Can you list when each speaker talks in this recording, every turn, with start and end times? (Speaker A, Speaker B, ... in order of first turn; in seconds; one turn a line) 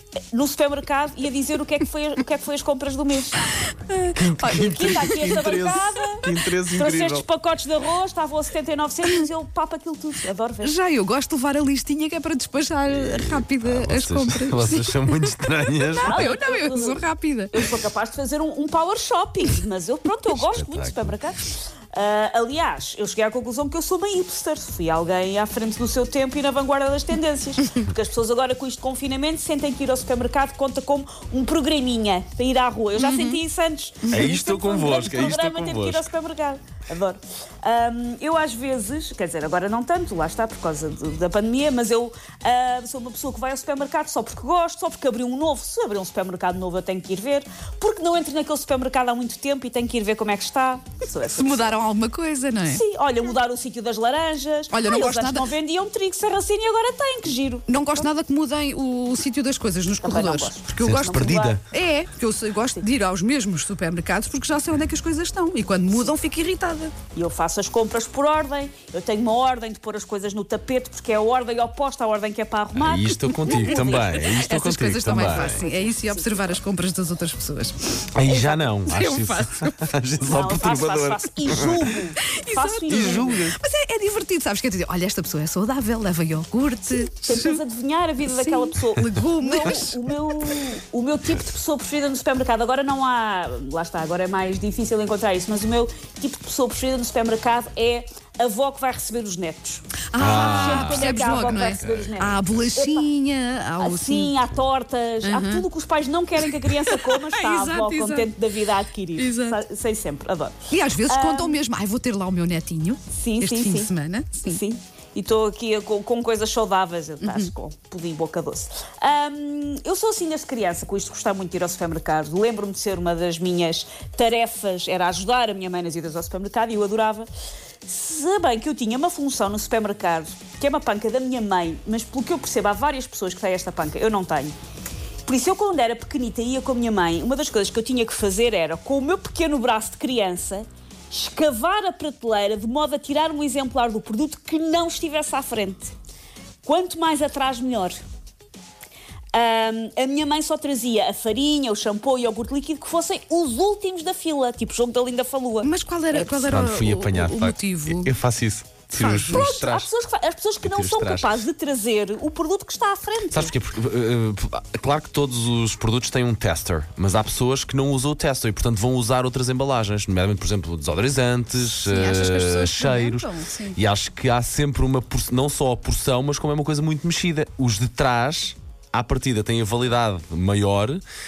Speaker A: 0.3-3.4
Speaker B: 3.7-5.4
Speaker C: 4.2-7.3
Speaker A: 4.5-10.7
Speaker B: 10.6-17.6
Speaker C: 12.9-16.2
Speaker A: 16.1-51.8
Speaker C: 20.4-21.2
Speaker B: 33.0-33.4
Speaker C: 34.1-36.1
Speaker B: 51.4-52.8
Speaker A: 52.7-58.1
Speaker B: 54.7-55.5
Speaker B: 57.7-66.9
Speaker A: 60.0-61.6
Speaker C: 60.8-61.6
Speaker A: 67.1-74.4
Speaker C: 72.8-75.6
Speaker B: 73.3-79.9
Speaker A: 75.1-76.6
Speaker C: 78.2-82.0
Speaker A: 80.2-83.5
Speaker B: 82.2-87.6
Speaker C: 82.9-83.6
Speaker A: 86.9-103.1
Speaker B: 88.2-90.0
Speaker B: 100.1-104.4
Speaker C: 100.2-102.1
Speaker A: 103.8-111.6
Speaker B: 105.2-105.7
Speaker B: 106.4-108.3
Speaker B: 109.2-109.6
Speaker B: 110.7-114.6
Speaker A: 113.1-127.3
Speaker B: 117.2-117.5
Speaker A: 127.8-134.6
Speaker A: 135.2-145.9
Speaker A: 146.6-147.9
Speaker A: 149.3-156.4
Speaker B: 155.6-158.1
Speaker C: 156.3-159.9
Speaker B: 158.9-159.7
Speaker A: 159.3-163.5
Speaker C: 160.6-161.4
Speaker C: 163.3-181.0
Speaker B: 171.8-173.8